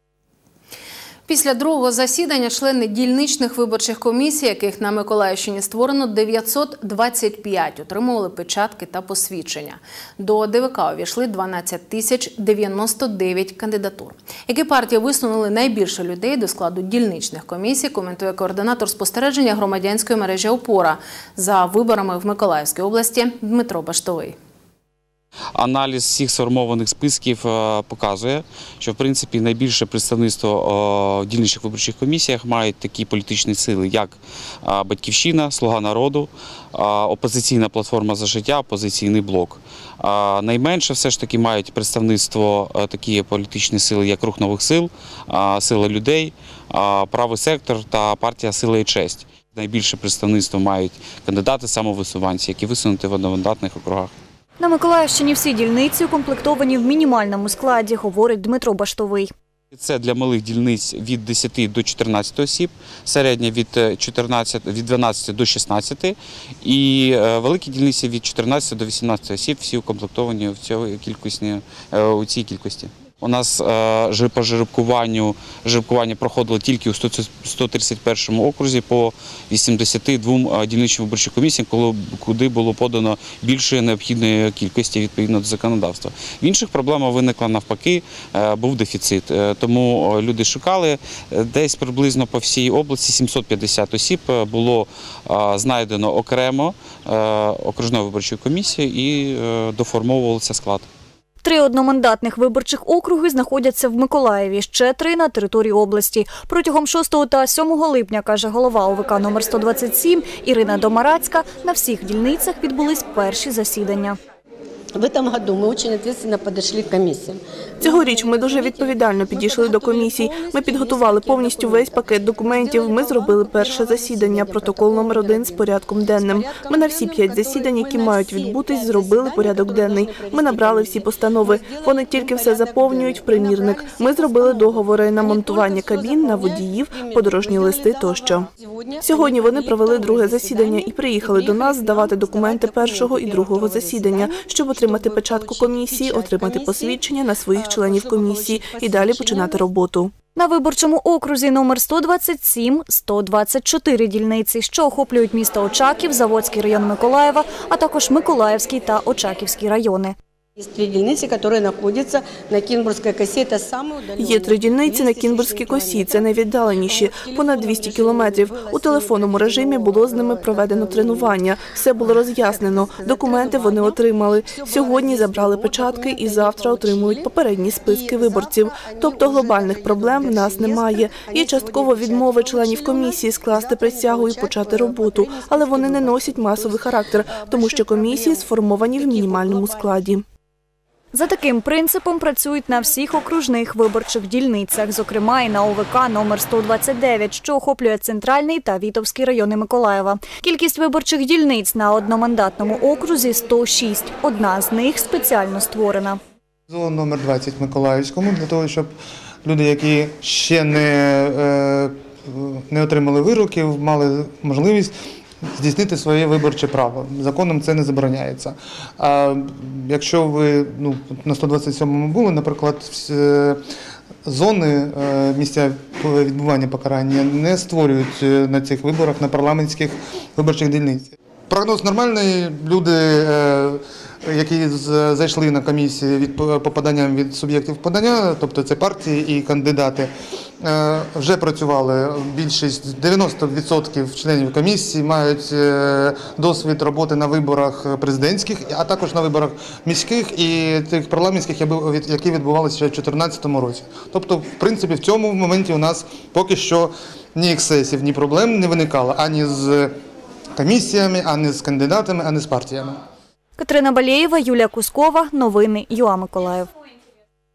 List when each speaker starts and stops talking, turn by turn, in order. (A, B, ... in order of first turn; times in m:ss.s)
0:01.3-0:24.4 A
0:25.6-0:54.1 B
0:54.6-0:59.3 C
0:59.7-1:40.8 B
1:41.4-1:54.2 C
1:54.9-2:29.7 D
1:57.8-2:18.5 E
2:19.0-2:30.1 E
2:30.3-2:40.1 C
2:40.6-2:46.2 D
2:44.2-3:10.2 E
2:46.8-2:51.4 D
2:52.0-3:10.0 D
3:11.1-3:26.2 C
3:26.7-3:28.9 F
3:29.4-3:34.9 F
3:35.5-3:43.6 F
3:44.2-4:00.1 F
4:00.6-4:19.9 F
4:20.6-4:23.0 F
4:23.6-4:26.7 C